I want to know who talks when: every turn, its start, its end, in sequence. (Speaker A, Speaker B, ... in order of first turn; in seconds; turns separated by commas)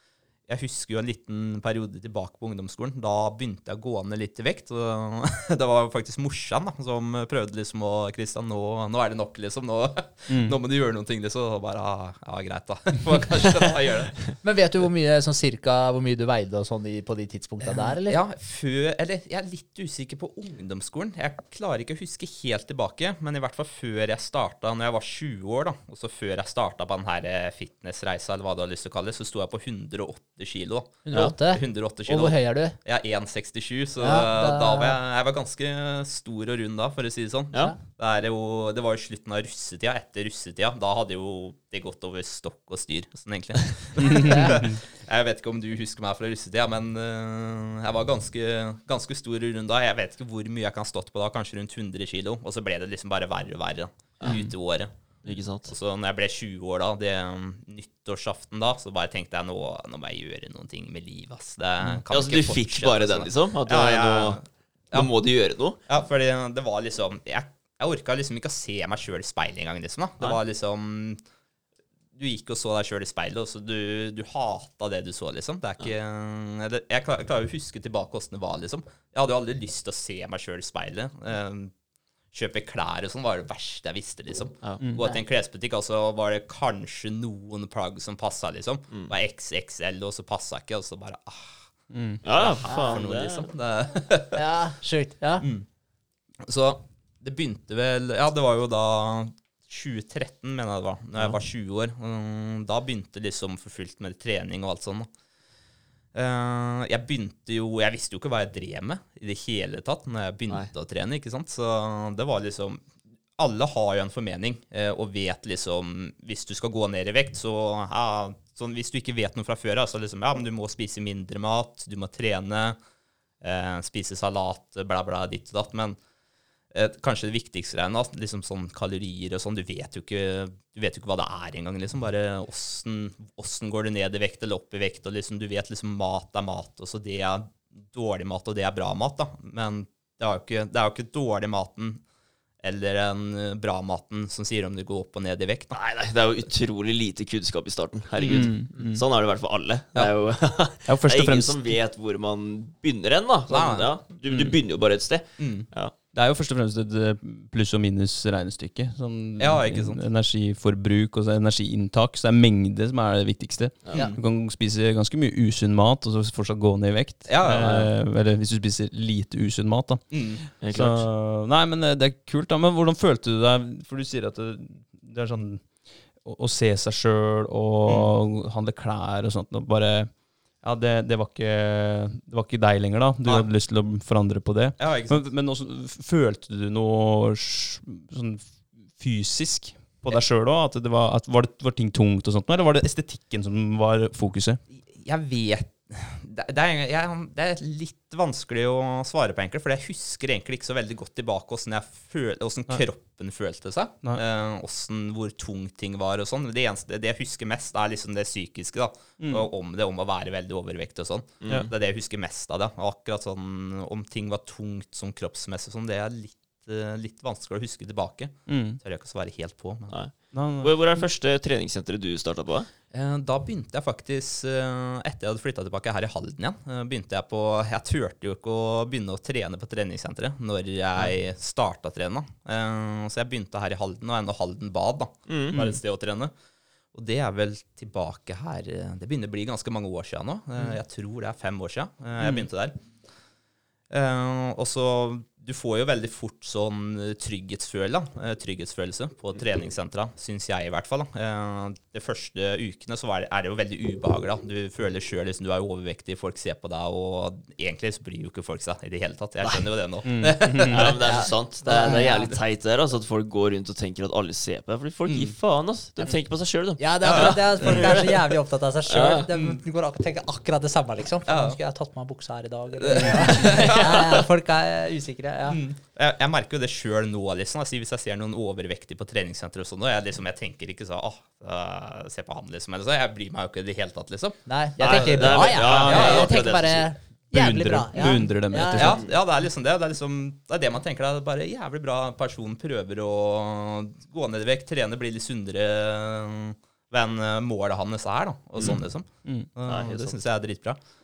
Speaker A: 0.5-14.3, Speaker B: 10.3-10.5, Speaker C: 14.4-18.2, Speaker A: 18.0-54.9, Speaker C: 31.0-32.8, Speaker C: 34.0-35.0, Speaker B: 44.1-44.7, Speaker C: 44.3-44.6, Speaker D: 55.2-55.7, Speaker A: 55.6-64.4, Speaker D: 62.1-64.4, Speaker D: 64.9-65.8, Speaker A: 65.9-71.2, Speaker A: 72.2-81.7, Speaker A: 82.3-91.7, Speaker B: 91.9-92.2, Speaker D: 92.2-93.5, Speaker A: 92.2-94.4, Speaker C: 92.7-93.0, Speaker C: 94.3-95.5, Speaker A: 96.5-105.1, Speaker A: 106.1-122.8, Speaker A: 123.4-126.0, Speaker A: 126.7-142.0, Speaker A: 142.6-145.8, Speaker D: 145.7-155.9, Speaker A: 148.2-148.5, Speaker B: 148.3-149.0, Speaker B: 150.9-151.6, Speaker A: 153.5-154.5, Speaker A: 155.4-155.7, Speaker B: 156.1-194.6, Speaker A: 159.4-160.0, Speaker D: 163.8-164.2, Speaker A: 167.3-167.9, Speaker D: 167.5-167.9, Speaker A: 170.1-170.4, Speaker D: 170.6-171.1, Speaker A: 184.8-185.2, Speaker A: 194.7-220.0, Speaker B: 209.2-209.5, Speaker D: 211.4-211.7, Speaker B: 218.5-218.8, Speaker D: 219.9-222.7, Speaker B: 220.3-221.1, Speaker A: 222.9-236.3, Speaker D: 235.3-235.7, Speaker A: 236.9-242.8, Speaker A: 243.9-262.3, Speaker B: 260.0-260.9, Speaker D: 260.4-269.3, Speaker C: 261.0-262.3, Speaker A: 265.1-265.3, Speaker C: 266.8-275.6, Speaker A: 267.0-267.8, Speaker A: 271.3-271.6, Speaker A: 272.8-274.1, Speaker D: 273.2-274.1, Speaker A: 275.5-284.4, Speaker C: 284.4-288.9, Speaker D: 284.8-286.9, Speaker A: 285.1-286.4, Speaker B: 285.6-286.2, Speaker B: 287.3-289.0, Speaker A: 288.8-300.8, Speaker D: 288.8-289.1, Speaker D: 299.6-300.1